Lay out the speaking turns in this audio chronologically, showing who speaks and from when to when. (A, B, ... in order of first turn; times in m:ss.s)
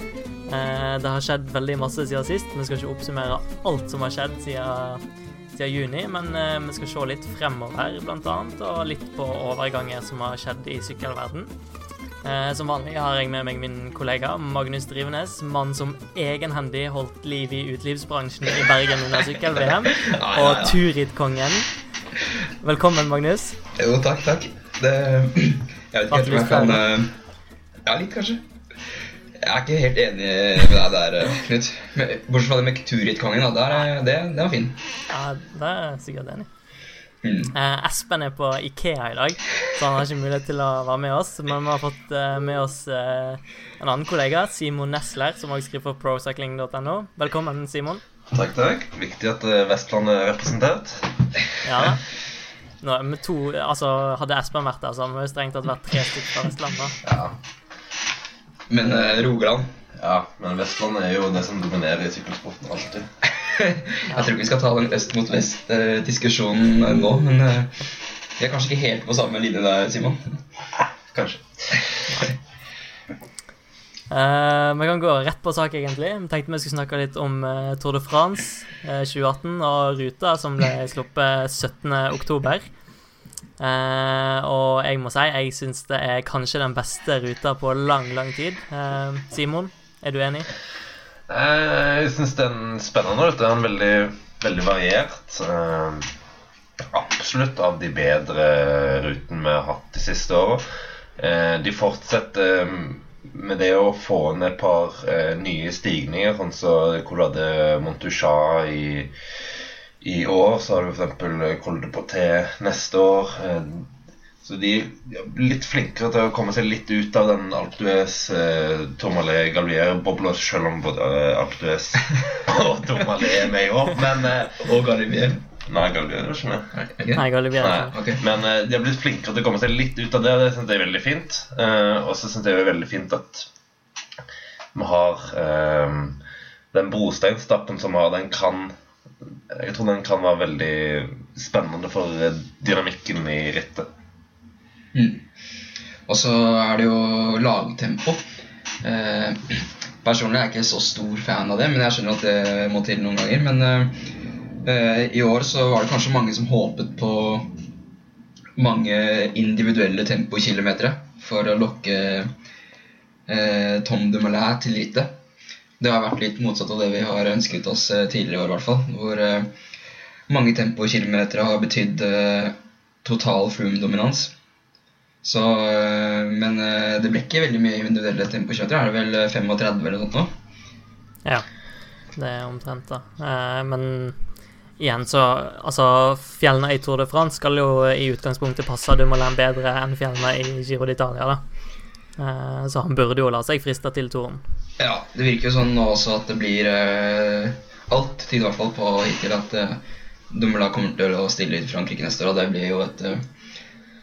0:00.5-0:05.0 A
0:05.5-0:11.5 A
0:12.2-0:21.7 A
0:19.9-0:20.8 B
0:22.6-0:23.6 A
0:23.8-0:27.1 B
0:26.1-0:26.8 A
0:27.8-0:28.4 B
0:29.4-0:34.8 B
0:35.1-0:36.5 A
0:37.2-0:37.5 B
0:37.5-0:48.0 A
0:48.3-0:51.2 C
0:51.6-0:52.0 A
0:52.8-0:57.0 A
0:57.0-0:57.4 C
0:58.7-0:59.7 B
1:00.0-1:03.1 C
1:03.4-1:10.4 B
1:10.8-1:11.9 C
1:14.1-1:22.7 A
1:23.6-1:30.5 A
1:31.3-1:36.1 C
1:36.9-1:40.6 C
1:41.2-1:49.1 C
1:50.0-1:53.9 C
1:54.4-2:04.7 C
2:02.2-2:02.4 B
2:04.6-2:05.4 B
2:05.6-2:06.7 C
2:06.8-2:07.2 B
2:07.1-2:07.9 A
2:07.6-2:13.5 C
2:07.9-2:08.2 B
2:14.7-2:16.2 C
2:16.7-2:18.7 C
2:19.2-2:23.9 C
2:24.9-2:25.2 B
2:26.1-2:28.2 B
2:28.8-2:34.1 B
2:34.6-2:37.5 B
2:38.6-2:42.3 B
2:43.3-2:45.1 B
2:45.8-2:49.5 B
2:50.3-2:54.3 B
2:55.2-3:00.3 B
3:02.1-3:04.2 A
3:04.8-3:11.4 A
3:12.2-3:14.4 A
3:14.8-3:23.2 B